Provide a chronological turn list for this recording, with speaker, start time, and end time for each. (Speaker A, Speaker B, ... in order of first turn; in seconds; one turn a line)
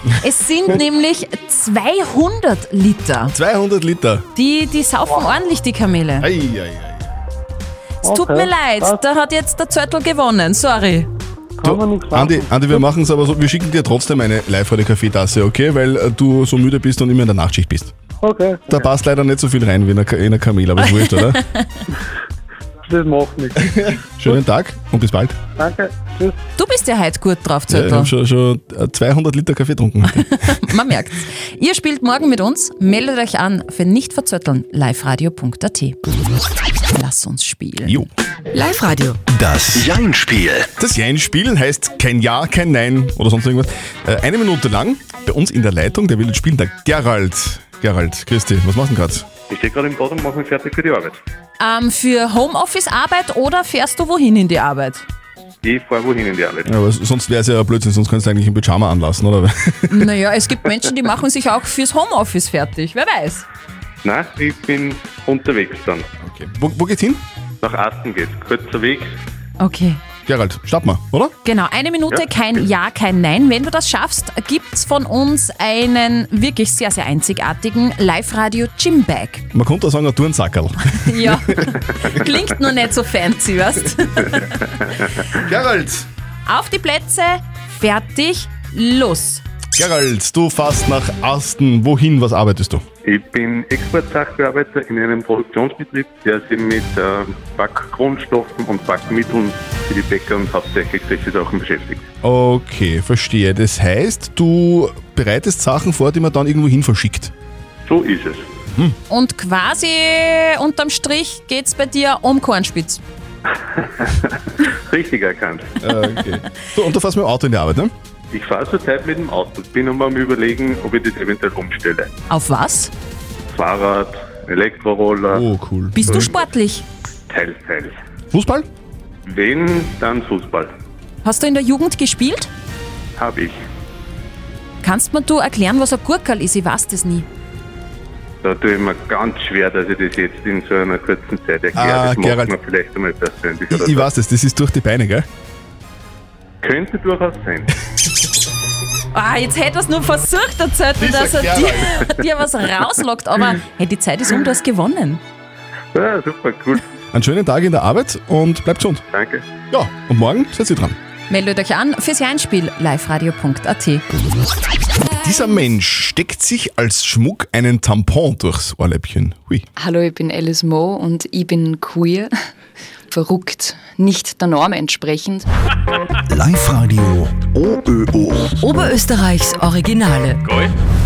Speaker A: 0.2-3.3
Speaker B: 3.3-4.2
Speaker A: 4.4-6.3
Speaker B: 6.2-7.1
Speaker C: 8.0-9.0
Speaker A: 8.0-11.1
Speaker C: 11.6-12.8
Speaker B: 11.6-17.9
Speaker C: 18.2-18.9
Speaker B: 18.7-21.4
Speaker C: 22.9-23.7
Speaker B: 23.6-25.4
Speaker C: 25.6-26.4
Speaker A: 26.6-28.1
Speaker B: 27.7-30.3
Speaker A: 30.1-36.0
Speaker A: 36.9-38.0
Speaker D: 38.5-39.2
Speaker E: 39.3-40.7
Speaker B: 40.8-49.3
Speaker F: 49.5-51.2
Speaker A: 51.6-55.0
Speaker F: 55.6-56.7
Speaker B: 56.6-60.1
Speaker A: 59.9-63.5
Speaker F: 64.0-66.1
Speaker B: 66.2-67.2
Speaker F: 67.6-69.1
Speaker A: 69.6-70.0
Speaker B: 70.3-71.3
Speaker A: 71.4-79.4
Speaker B: 79.5-81.8
Speaker A: 81.0-84.8
Speaker B: 85.3-86.1
Speaker A: 86.5-89.4
Speaker B: 89.8-92.8
Speaker F: 93.0-102.0
Speaker B: 102.2-107.3
Speaker F: 107.9-108.5
Speaker A: 109.1-113.0
Speaker F: 114.9-115.7
Speaker B: 115.8-117.9
Speaker F: 118.3-122.1
Speaker A: 122.3-122.9
Speaker F: 123.5-125.5
Speaker B: 125.3-126.3
Speaker A: 126.0-126.8
Speaker F: 127.3-128.0
Speaker B: 128.3-128.7
Speaker F: 129.3-130.7
Speaker A: 131.2-132.5
Speaker F: 133.2-133.6
Speaker A: 134.8-137.3
Speaker F: 138.4-144.1
Speaker B: 141.8-142.6
Speaker B: 143.7-145.2
Speaker F: 146.6-147.7
Speaker A: 149.1-155.2
Speaker B: 151.0-152.0
Speaker F: 155.9-156.8
Speaker B: 157.1-159.0
Speaker F: 159.1-159.4
Speaker B: 159.7-161.0
Speaker A: 161.3-164.0
Speaker B: 165.1-169.7
Speaker G: 169.8-172.2
Speaker G: 173.1-175.5
Speaker E: 176.3-178.7
Speaker D: 178.6-180.4